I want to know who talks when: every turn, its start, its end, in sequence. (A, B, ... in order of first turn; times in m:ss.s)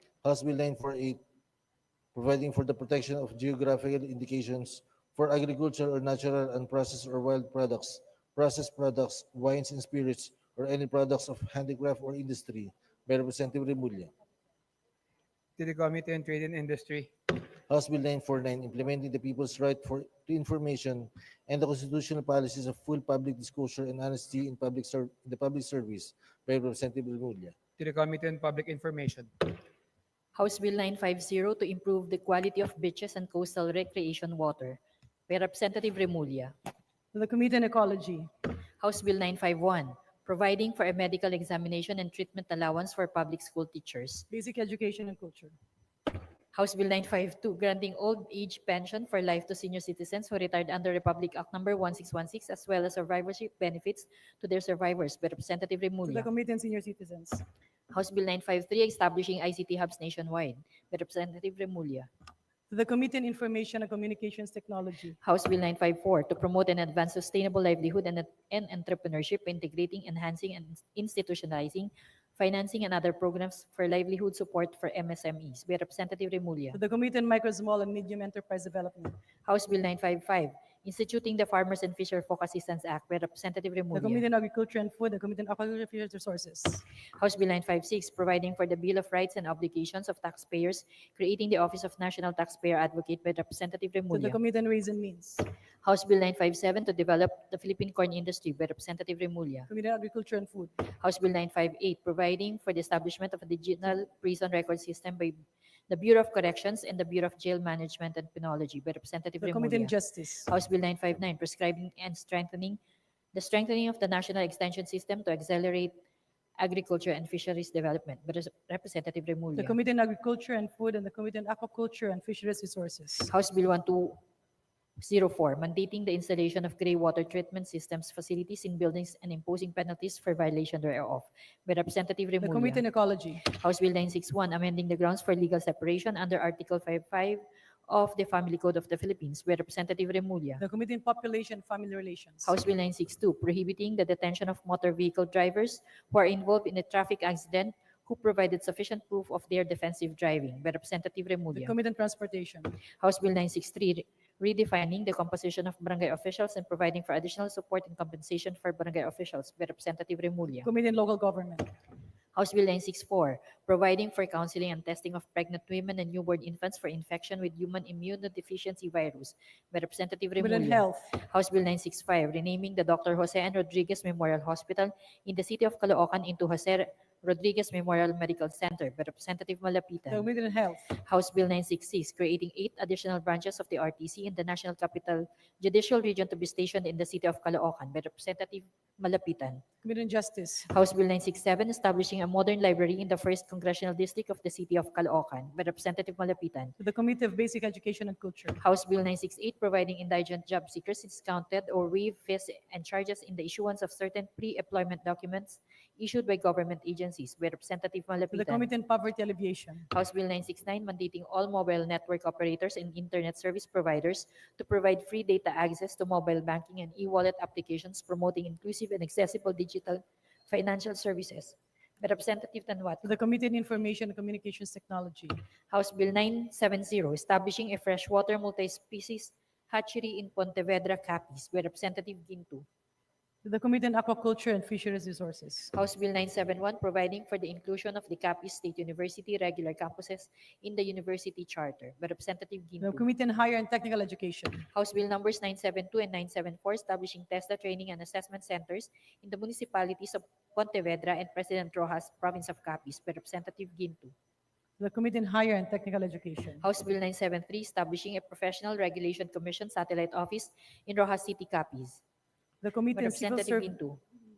0:00.2-0:01.2 A
0:02.2-0:14.1 A
0:15.6-0:17.1 B
0:17.7-0:27.6 A
0:27.8-0:29.3 B
0:30.4-0:36.6 C
0:37.1-0:38.3 D
0:38.8-0:44.3 C
0:44.3-0:45.5 D
0:46.5-0:56.3 C
0:56.1-0:57.4 D
0:57.9-1:02.1 C
1:02.7-1:05.2 D
1:05.2-1:16.8 C
1:16.7-1:19.2 D
1:19.4-1:24.2 C
1:23.9-1:26.8 D
1:27.2-1:34.4 C
1:34.1-1:35.4 D
1:35.8-1:39.7 C
1:39.7-1:40.7 D
1:40.9-1:50.0 C
1:49.4-1:50.5 D
1:50.5-1:52.8 C
1:53.3-1:55.9 C
1:56.6-1:59.8 C
1:59.6-2:03.3 D
2:03.3-2:04.2 C
2:05.0-2:12.8 C
2:12.4-2:13.4 D
2:13.4-2:20.6 C
2:20.6-2:22.5 D
2:22.4-2:31.8 C
2:31.5-2:32.7 D
2:33.0-2:40.7 C
2:40.6-2:41.7 D
2:42.4-3:00.3 C
2:50.4-2:51.1 D
3:00.1-3:00.8 D
3:00.9-3:09.6 C
3:09.8-3:10.7 D
3:10.7-3:16.8 C
3:16.8-3:18.6 D
3:18.6-3:28.7 C
3:28.3-3:29.9 D
3:29.9-3:43.1 C
3:43.0-3:45.4 D
3:45.7-3:52.6 C
3:53.4-3:55.7 D
3:55.7-4:03.0 C
4:02.8-4:04.6 D
4:04.7-4:14.1 C
4:14.8-4:16.6 D
4:16.6-4:22.0 C
4:22.6-4:23.8 D
4:23.0-4:24.0 C